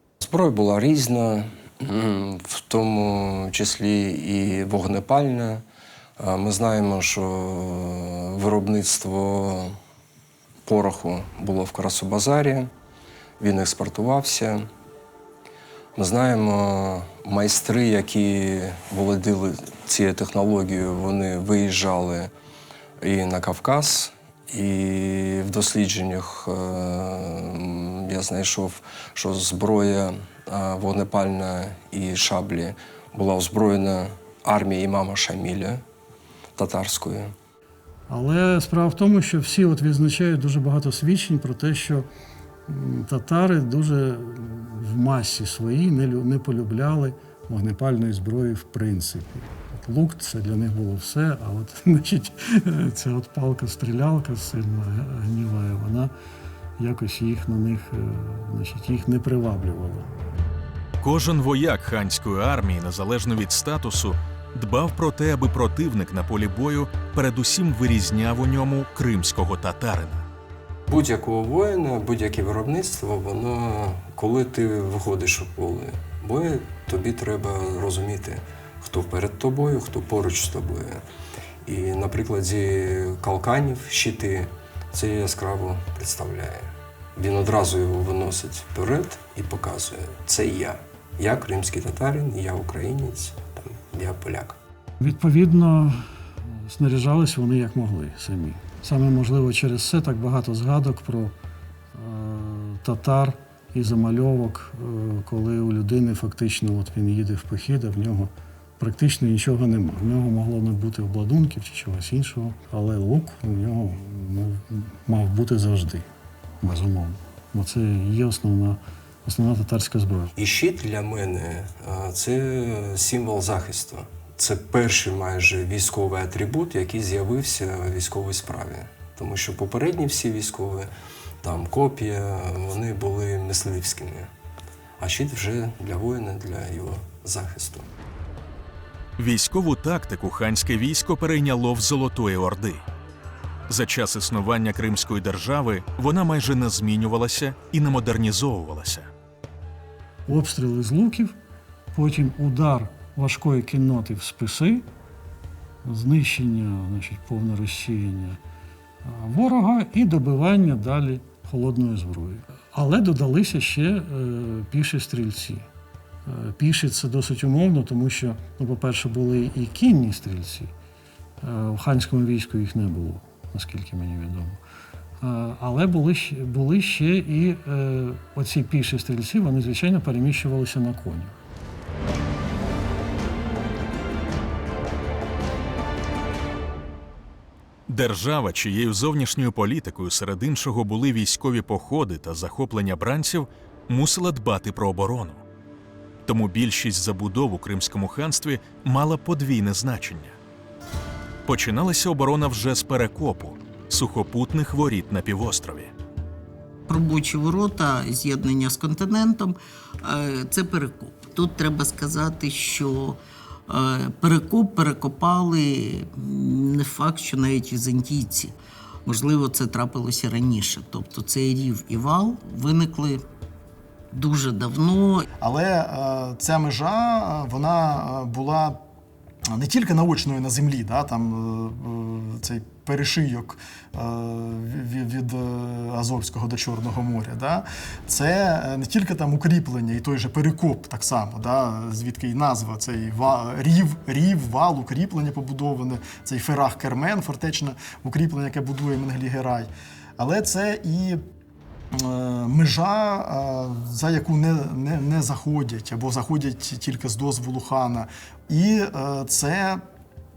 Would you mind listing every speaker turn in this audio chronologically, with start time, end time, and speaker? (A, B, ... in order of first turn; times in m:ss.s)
0:00.2-0:05.6 A
0:06.2-0:09.8 A
0:10.6-0:12.7 A
0:13.4-0:14.7 A
0:16.0-0:22.3 A
0:23.0-0:35.8 A
0:36.6-0:37.3 A
0:38.1-0:42.1 B
0:42.7-0:56.1 B
0:56.8-1:00.1 B
1:01.0-1:10.2 C
1:10.9-1:21.0 A
1:21.6-1:34.6 A
1:35.0-1:41.3 B
1:41.9-1:56.1 B
1:56.6-2:00.3 B
2:00.4-2:10.9 A
2:11.4-2:14.3 A
2:15.0-2:17.9 A
2:19.2-2:22.8 C
2:23.7-2:29.1 C
2:30.3-2:31.3 B
2:31.9-2:34.8 B
2:35.8-2:38.4 B
2:39.0-2:45.7 B
2:46.2-2:50.7 B
2:51.4-2:54.6 B
2:55.2-3:01.4 B
3:07.9-3:15.4 C
3:16.2-3:20.4 C
3:21.4-3:25.9 C
3:26.9-3:38.5 D
3:39.0-3:43.2 D
3:44.1-3:45.2 D
3:45.4-3:48.8 E
3:49.5-4:11.2 E
4:11.9-4:19.8 E